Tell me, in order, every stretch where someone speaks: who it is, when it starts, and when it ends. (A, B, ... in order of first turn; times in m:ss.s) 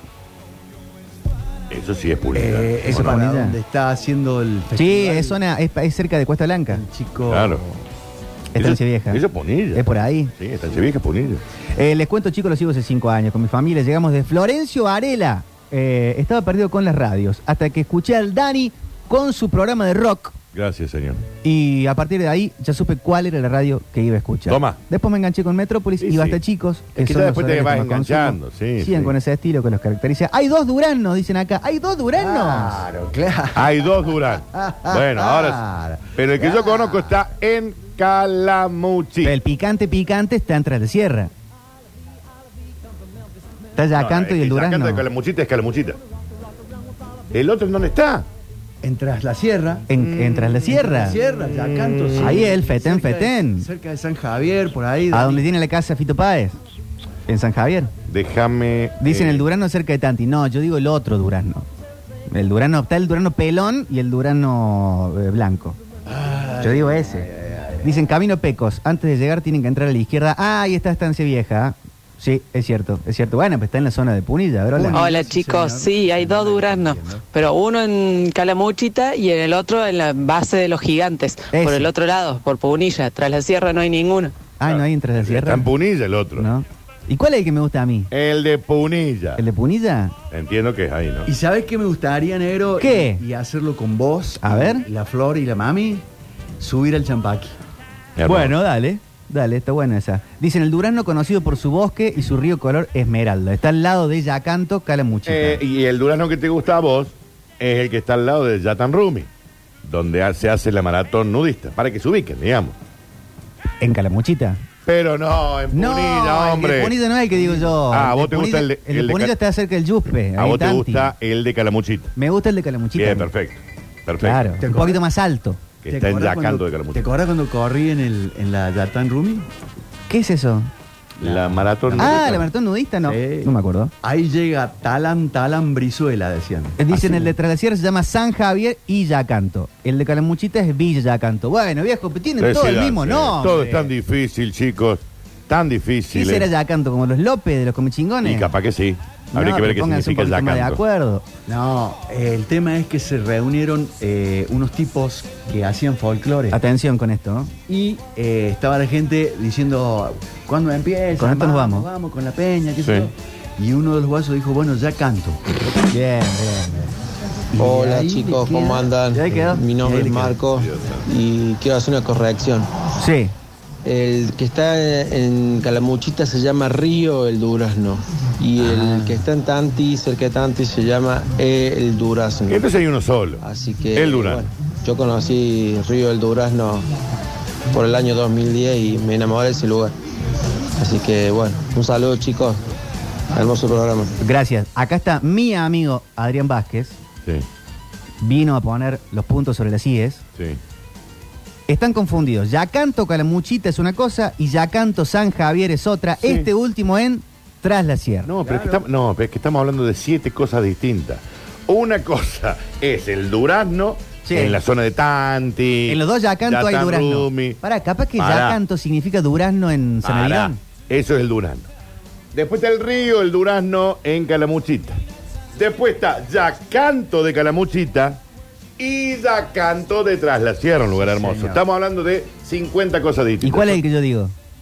0:01.7-0:03.1 A
0:02.3-0:05.4 B
0:02.9-0:03.6 C
0:04.7-0:06.8 C
0:06.7-0:07.8 B
0:07.3-0:07.6 A
0:08.5-0:09.2 C
0:08.6-0:11.4 A
0:09.7-0:10.3 C
0:11.8-0:20.4 C
0:20.5-0:21.2 A
0:21.4-0:32.8 C
0:24.5-0:24.8 A
0:26.0-0:26.4 A
0:27.0-0:29.1 A
0:32.2-0:37.1 B
0:33.6-0:35.6 A
0:36.2-0:39.3 A
0:39.2-0:41.3 C
0:43.8-0:45.0 C
0:43.9-0:46.0 A
0:47.3-0:48.2 A
0:48.8-0:49.9 B
0:49.9-0:51.2 C
0:50.7-0:55.4 B
0:51.5-0:52.3 A
0:52.2-0:53.7 C
0:55.1-0:56.6 C
0:57.3-0:57.9 C
0:58.1-0:59.4 A
0:59.0-1:01.6 C
1:02.3-1:05.8 C
1:06.1-1:07.9 B
1:06.6-1:07.3 C
1:07.8-1:15.1 C
1:14.8-1:17.2 B
1:14.9-1:24.3 D
1:21.5-1:21.9 C
1:24.6-1:25.7 C
1:24.6-1:26.5 A
1:26.4-1:28.1 C
1:28.1-1:29.4 A
1:29.4-1:30.2 C
1:30.3-1:31.3 A
1:31.3-1:36.0 B
1:32.8-1:33.2 C
1:34.4-1:34.8 C
1:36.6-1:37.6 B
1:38.2-1:38.5 A
1:38.2-1:45.6 C
1:45.3-1:49.3 A
1:49.8-1:52.7 A
1:53.8-1:54.6 C
1:54.8-1:56.9 A
1:55.7-2:01.1 C
1:57.3-1:57.7 B
1:57.8-1:59.3 A
2:00.4-2:02.1 A
2:02.2-2:03.3 C
2:03.0-2:04.6 A
2:04.2-2:05.6 C
2:04.6-2:05.0 B
2:05.8-2:07.0 A
2:05.9-2:09.5 B
2:10.1-2:10.7 C
2:11.2-2:12.4 A
2:11.2-2:12.5 B
2:12.0-2:13.9 C
2:13.0-2:17.3 B
2:16.8-2:23.9 C
2:22.4-2:26.5 A
2:26.1-2:28.5 C
2:28.2-2:30.8 A
2:29.3-2:31.2 C
2:31.5-2:36.6 B
2:36.5-2:37.5 C
2:37.7-2:45.4 B
2:41.2-2:41.9 C
2:42.8-2:43.1 A
2:45.9-2:46.9 C
2:47.6-2:50.4 B
2:47.6-2:52.7 E
2:49.1-2:49.6 C
2:50.5-2:51.0 A
2:53.0-2:53.3 C
2:53.8-3:02.7 E
2:58.6-2:59.2 C
3:02.5-3:03.4 A
3:03.4-3:06.9 E
3:03.9-3:04.4 A
3:07.7-3:09.9 E
3:10.8-3:12.6 E
3:13.3-3:14.1 E
3:14.2-3:17.0 C
3:18.2-3:20.2 C
3:21.7-3:28.6 C
3:28.2-3:37.6 A
3:34.2-3:34.6 C
3:35.9-3:40.6 C
3:38.2-3:38.6 A
3:40.0-3:41.7 A
3:42.3-3:45.0 A
3:45.6-3:48.2 A
3:48.8-3:53.8 A
3:50.9-3:51.6 B
3:53.4-3:54.3 C